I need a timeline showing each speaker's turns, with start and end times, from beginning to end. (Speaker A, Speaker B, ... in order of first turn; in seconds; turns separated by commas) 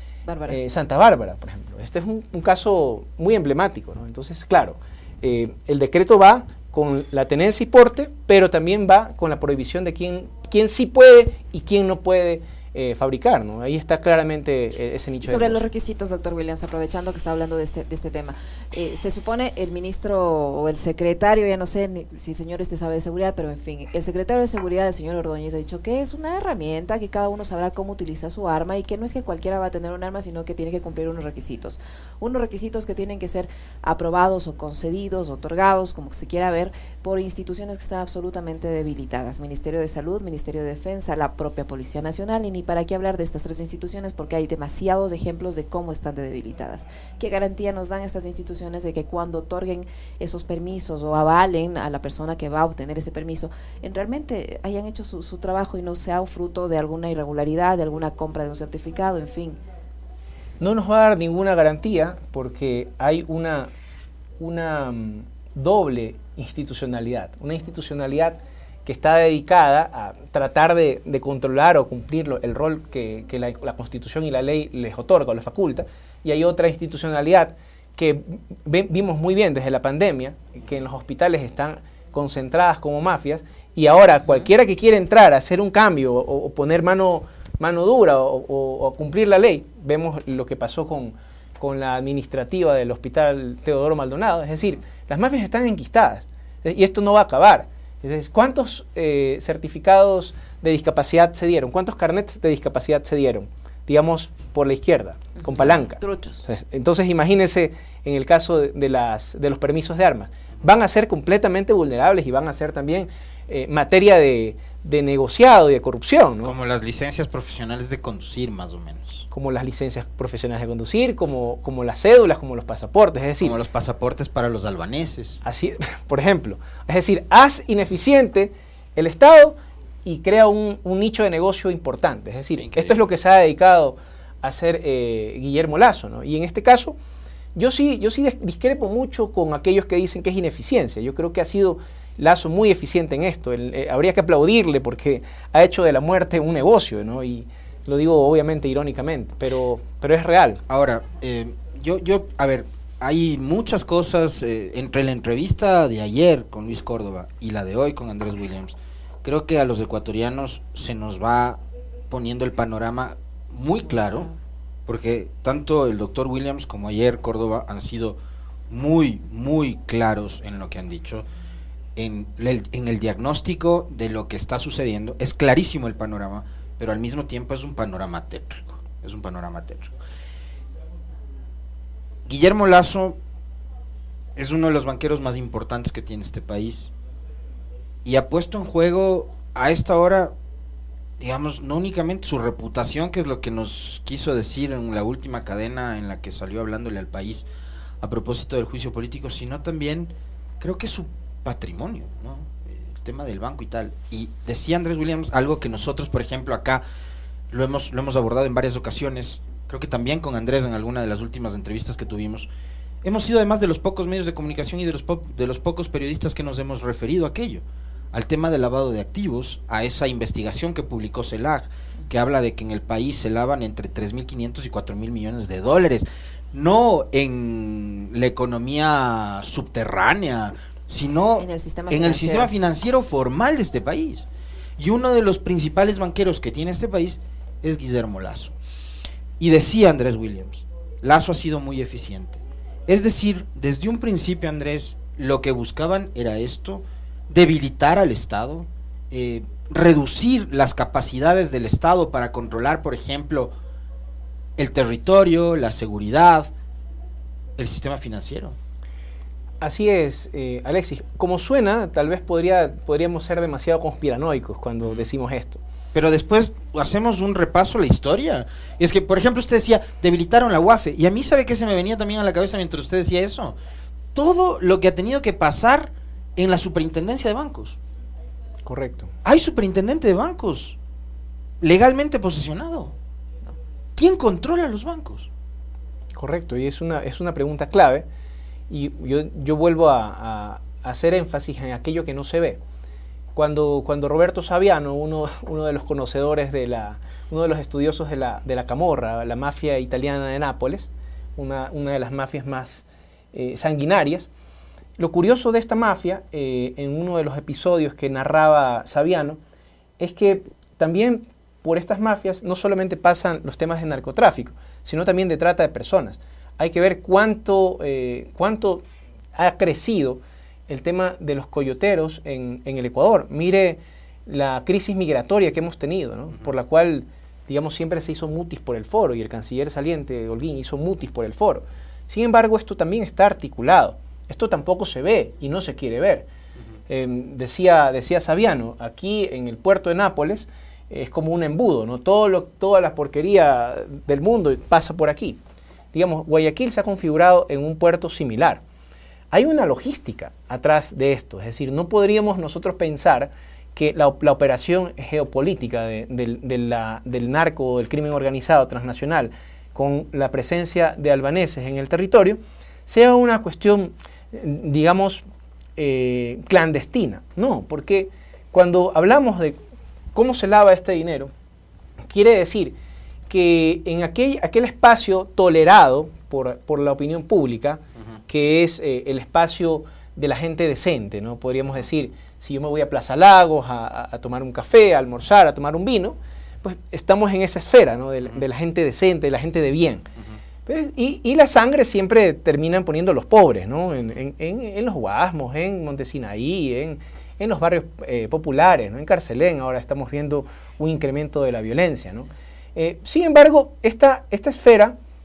Speaker A: 0.3-0.6, Speaker B: 0.5-15.6, Speaker A: 15.2-59.6, Speaker B: 60.6-63.7, Speaker B: 64.4-116.5, Speaker A: 106.0-106.4, Speaker C: 116.4-119.3, Speaker B: 119.3-123.6, Speaker C: 123.4-125.4, Speaker B: 125.4-137.0, Speaker C: 132.6-133.0, Speaker B: 137.6-150.6, Speaker C: 150.7-164.3, Speaker C: 164.9-168.2, Speaker C: 168.7-171.2, Speaker C: 172.0-179.9, Speaker C: 182.3-183.2, Speaker C: 184.4-186.9, Speaker C: 188.1-190.3, Speaker C: 191.2-197.5, Speaker C: 198.0-206.8, Speaker C: 207.5-212.5, Speaker C: 213.0-234.3, Speaker A: 231.4-232.5, Speaker C: 234.8-238.5, Speaker C: 239.4-253.5, Speaker C: 254.6-256.5, Speaker C: 257.6-258.6, Speaker B: 259.6-265.6, Speaker C: 265.9-273.6, Speaker C: 274.1-277.8, Speaker B: 278.7-279.1, Speaker C: 279.2-280.8, Speaker C: 281.6-282.9, Speaker C: 284.0-285.3, Speaker B: 286.1-288.1, Speaker B: 288.7-292.6, Speaker B: 293.4-304.3, Speaker B: 305.0-309.4, Speaker B: 310.0-318.8, Speaker B: 319.4-336.3, Speaker B: 336.9-345.4, Speaker B: 345.9-348.6, Speaker B: 349.3-365.2, Speaker B: 365.8-369.6, Speaker B: 370.1-371.3, Speaker B: 372.1-372.7, Speaker B: 373.3-390.1, Speaker B: 390.7-405.0